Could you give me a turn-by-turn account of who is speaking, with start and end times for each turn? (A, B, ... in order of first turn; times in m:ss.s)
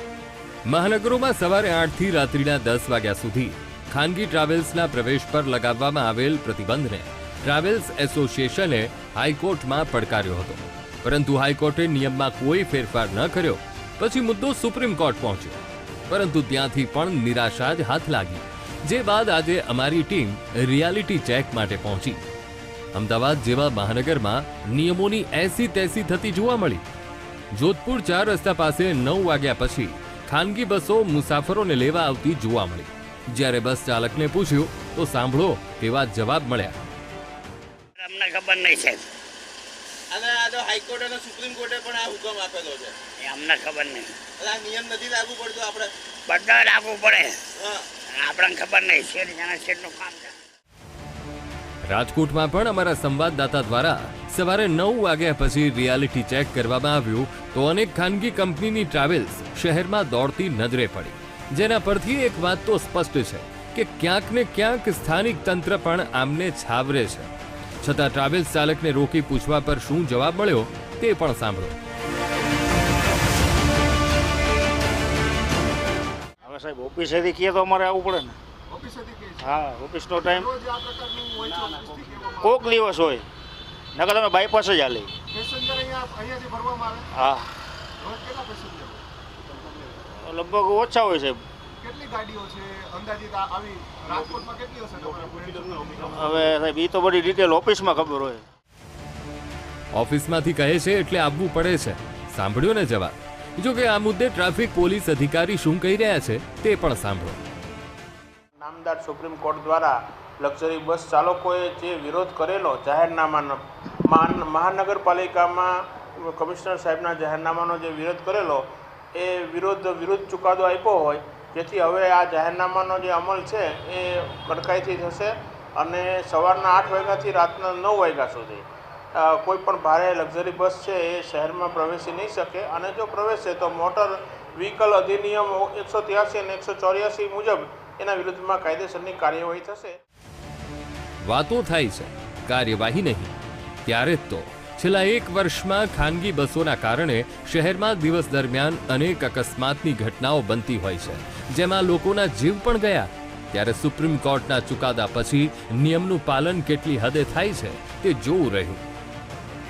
0:00.7-0:22.2 A
0:22.9-0:26.8 A
0:27.5-0:36.8 A
0:38.0-0:39.1 B
0:40.1-0:43.0 C
0:43.2-0:44.2 B
0:44.4-0:45.9 C
0:46.3-0:47.4 B
0:47.6-0:47.8 C
0:48.1-0:50.4 B
0:51.9-1:07.3 A
1:07.8-1:11.8 A
1:16.4-1:18.4 D
1:18.7-1:19.6 E
1:19.4-1:20.5 D
1:20.1-1:22.7 E
1:22.4-1:23.2 D
1:23.9-1:25.1 D
1:25.3-1:27.1 E
1:27.1-1:27.5 D
1:28.0-1:29.0 E
1:30.2-1:31.4 D
1:31.8-1:36.0 E
1:36.1-1:38.4 D
1:39.9-1:47.4 A
1:48.6-2:20.0 F
2:21.2-2:23.3 A
2:23.8-2:38.8 A